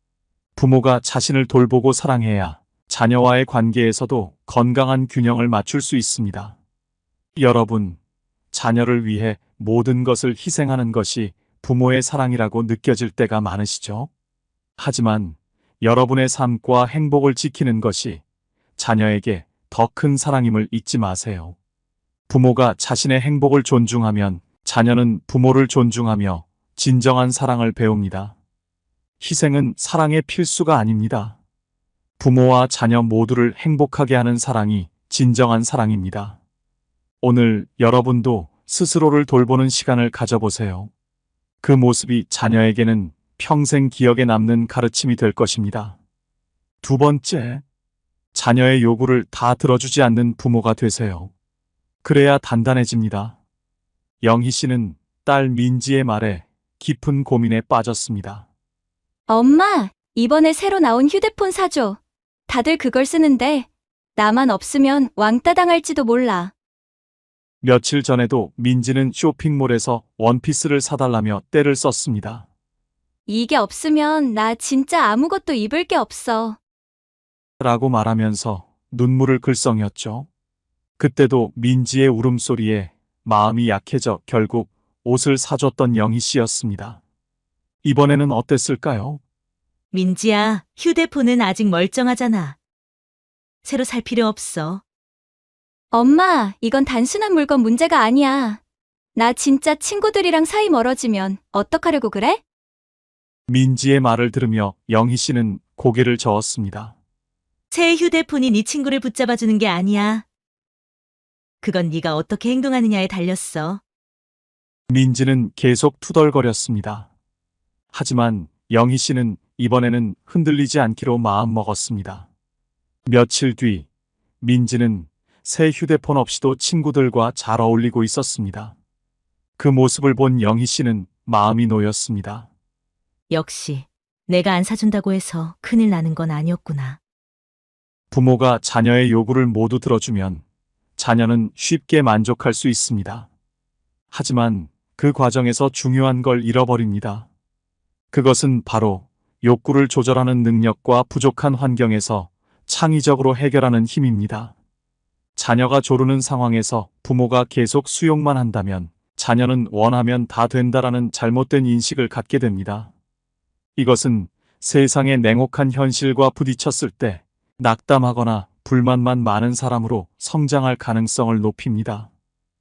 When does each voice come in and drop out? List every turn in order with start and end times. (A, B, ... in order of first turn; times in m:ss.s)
0:00.6-0:06.6 A
0:07.4-0:08.0 A
0:08.5-0:14.1 A
0:14.8-0:18.2 A
0:18.8-0:21.6 A
0:22.3-0:28.4 A
0:29.2-0:31.4 A
0:32.2-0:36.4 A
0:37.2-0:40.9 A
0:41.6-0:46.0 A
0:46.8-0:47.6 A
0:48.3-0:51.3 A
0:52.0-0:53.4 A
0:54.2-0:58.5 A
0:59.3-1:06.5 B
1:07.6-1:12.5 A
1:13.3-1:16.6 B
1:17.6-1:20.3 A
1:21.0-1:27.0 A
1:27.8-1:29.2 A
1:29.9-1:32.6 C
1:33.6-1:34.8 C
1:35.9-1:38.6 B
1:39.2-1:42.4 B
1:43.5-1:47.0 A
1:47.7-1:50.3 C
1:51.6-1:53.8 C
1:54.9-1:57.1 A
1:57.9-2:02.3 A
2:03.1-2:03.9 A
2:04.4-2:08.8 A
2:09.6-2:12.5 A
2:13.3-2:17.0 C
2:18.1-2:20.4 A
2:21.0-2:23.3 A
2:24.1-2:27.3 A
2:28.1-2:34.5 A
2:35.4-2:42.9 A
2:43.8-2:52.1 A